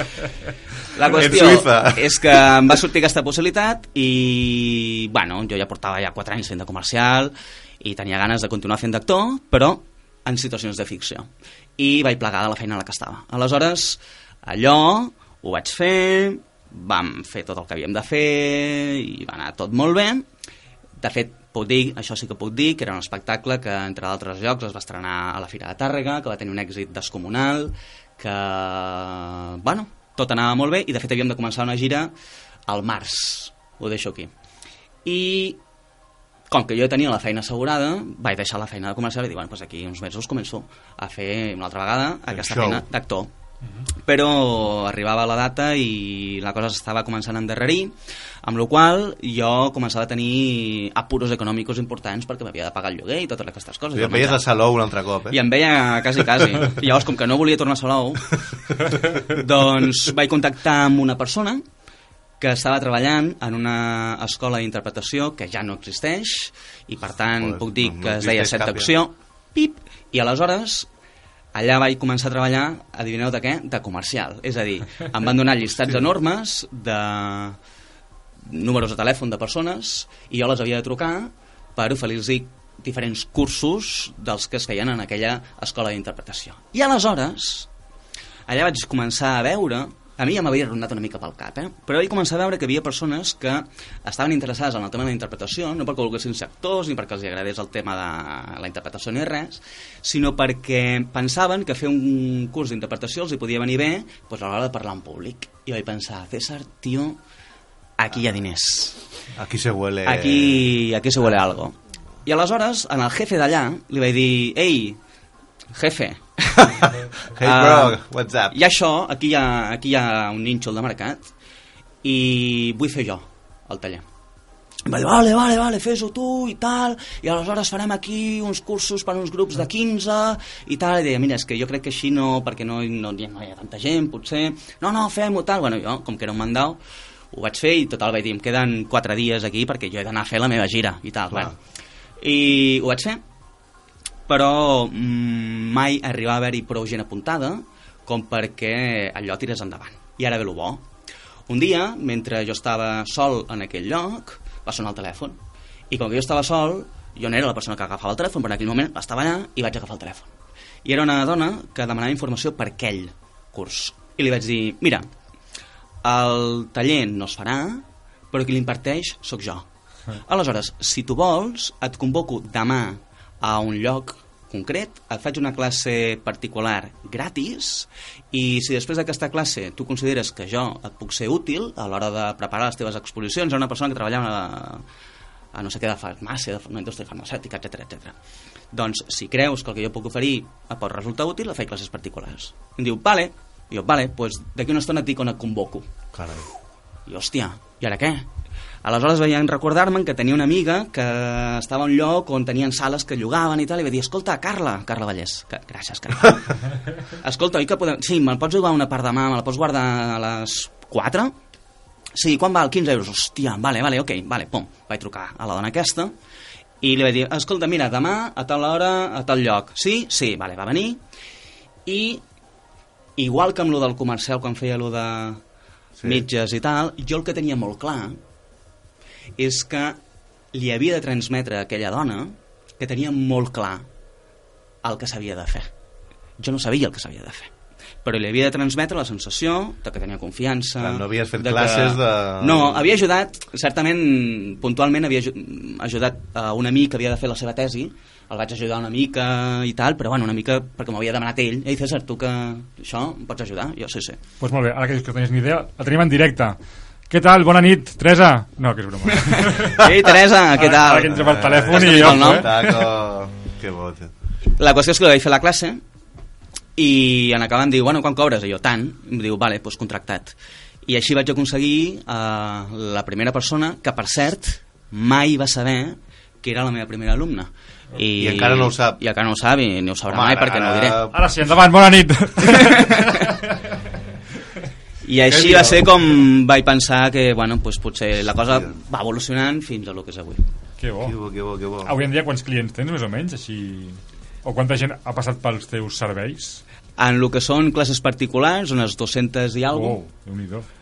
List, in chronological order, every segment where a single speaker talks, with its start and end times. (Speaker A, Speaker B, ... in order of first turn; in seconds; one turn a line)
Speaker A: 0.9-20.2
Speaker B: 1.0-2.8
Speaker A: 21.0-32.1
Speaker A: 32.7-34.3
Speaker A: 35.0-35.6
Speaker A: 36.5-43.3
Speaker B: 42.3-42.8
Speaker A: 44.0-54.4
Speaker B: 53.9-55.4
Speaker A: 55.3-58.3
Speaker A: 59.2-61.6
Speaker A: 62.4-70.9
Speaker B: 67.4-68.9
Speaker A: 71.5-77.6
Speaker A: 78.5-87.7
Speaker A: 88.5-107.2
Speaker A: 108.0-109.0
Speaker B: 109.3-111.3
Speaker A: 110.0-111.7
Speaker A: 112.2-115.0
Speaker A: 115.7-116.6
Speaker B: 116.6-118.5
Speaker A: 117.4-118.0
Speaker A: 118.5-121.3
Speaker A: 122.0-124.0
Speaker A: 124.8-136.8
Speaker A: 137.3-141.5
Speaker A: 142.2-143.2
Speaker A: 144.3-150.8
Speaker A: 151.5-160.3
Speaker A: 160.8-165.1
Speaker A: 166.0-169.7
Speaker A: 170.2-184.8
Speaker A: 185.5-188.1
Speaker A: 188.7-195.9
Speaker B: 196.1-196.4
Speaker A: 197.1-198.3
Speaker A: 198.8-206.4
Speaker A: 207.2-211.3
Speaker A: 212.1-216.1
Speaker A: 216.8-221.0
Speaker A: 221.8-222.2
Speaker A: 223.2-225.4
Speaker B: 226.0-226.2
Speaker A: 226.0-228.2
Speaker A: 229.4-230.0
Speaker A: 230.5-233.9
Speaker A: 234.8-235.7
Speaker A: 236.4-237.5
Speaker A: 238.0-254.2
Speaker B: 240.8-242.9
Speaker C: 254.4-256.6
Speaker C: 257.1-259.9
Speaker A: 259.2-261.2
Speaker C: 260.5-262.8
Speaker B: 261.1-264.1
Speaker A: 261.7-262.5
Speaker A: 264.6-265.8
Speaker A: 266.8-270.3
Speaker A: 270.9-281.0
Speaker B: 278.1-279.0
Speaker B: 280.1-281.2
Speaker C: 281.1-283.5
Speaker A: 282.6-283.0
Speaker A: 285.0-290.4
Speaker B: 285.3-286.0
Speaker C: 290.8-291.1
Speaker B: 291.0-291.9
Speaker C: 291.8-296.6
Speaker A: 297.0-300.0
Speaker C: 299.7-300.7